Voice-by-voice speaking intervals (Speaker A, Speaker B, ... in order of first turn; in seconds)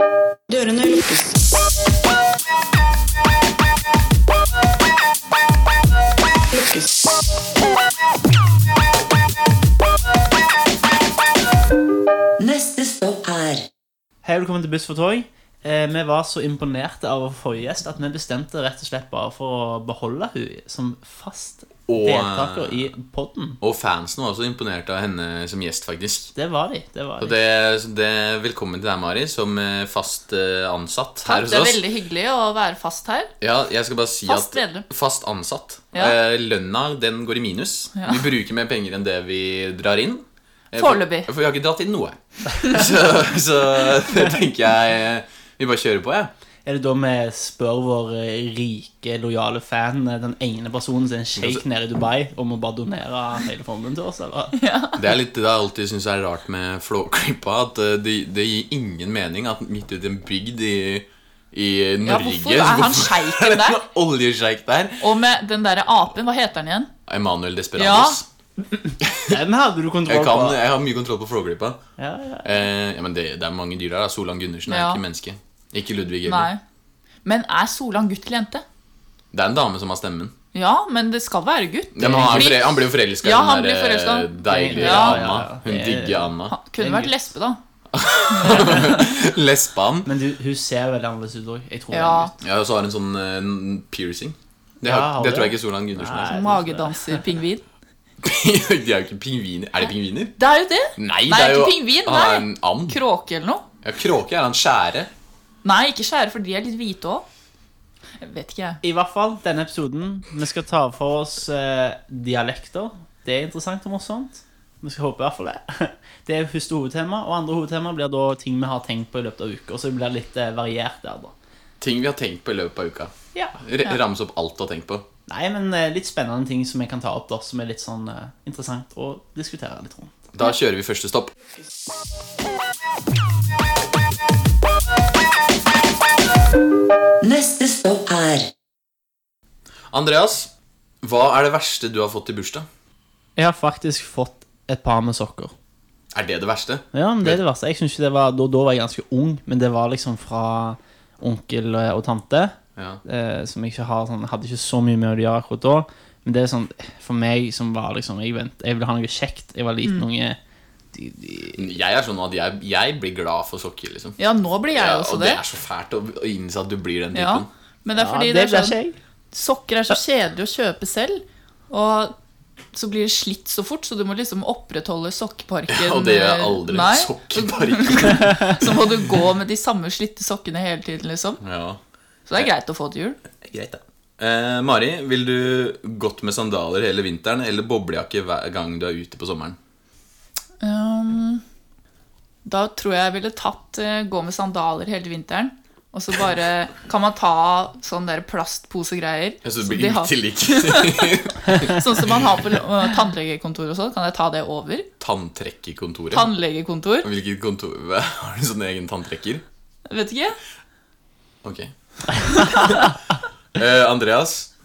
Speaker A: 0.5-1.3, 6.5-6.8, 12.4-13.7, 137.2-138.5
Speaker B: 14.2-23.6, 26.3-27.4, 46.6-54.6, 69.2-70.6, 72.0-72.4, 82.0-82.5, 84.5-87.1, 90.0-92.3, 94.8-97.2, 108.8-121.3, 125.3-130.1, 143.3-145.5, 146.9-160.4, 160.9-161.7, 167.9-168.9
Speaker C: 21.9-22.9, 23.6-26.3, 27.2-31.8, 33.4-46.3, 51.4-51.6, 55.0-65.0, 67.1-68.2, 69.0-69.4, 70.1-71.8, 72.4-76.5, 79.3-80.3, 81.9-86.5, 87.9-90.1, 92.4-96.5, 98.2-100.4, 101.0-103.0, 103.8-105.1, 121.8-125.0, 130.3-131.3, 139.9-140.5, 141.0-142.7, 146.1-147.4, 152.8-153.0, 161.6-164.2, 164.7-167.5, 175.7-178.7, 181.4-181.8, 183.4-189.6, 199.4-202.2, 205.0-206.3, 207.0-209.4, 211.4-212.9, 213.5-214.5
Speaker D: 31.2-33.3, 34.3-34.9, 37.9-38.2, 40.7-41.3, 54.5-55.0, 62.0-63.8, 65.0-66.9, 67.8-68.2, 74.7-75.0, 76.2-76.6, 77.2-78.6, 80.5-85.3, 86.5-87.6, 88.3-89.1, 91.9-92.3, 96.2-97.6, 100.4-103.6, 105.6-107.2, 108.2-108.8, 164.2-165.4, 167.1-168.8, 169.3-172.1, 172.7-181.4, 182.3-183.2, 190.6-191.4, 192.4-204.9, 206.1-207.1, 209.9-210.4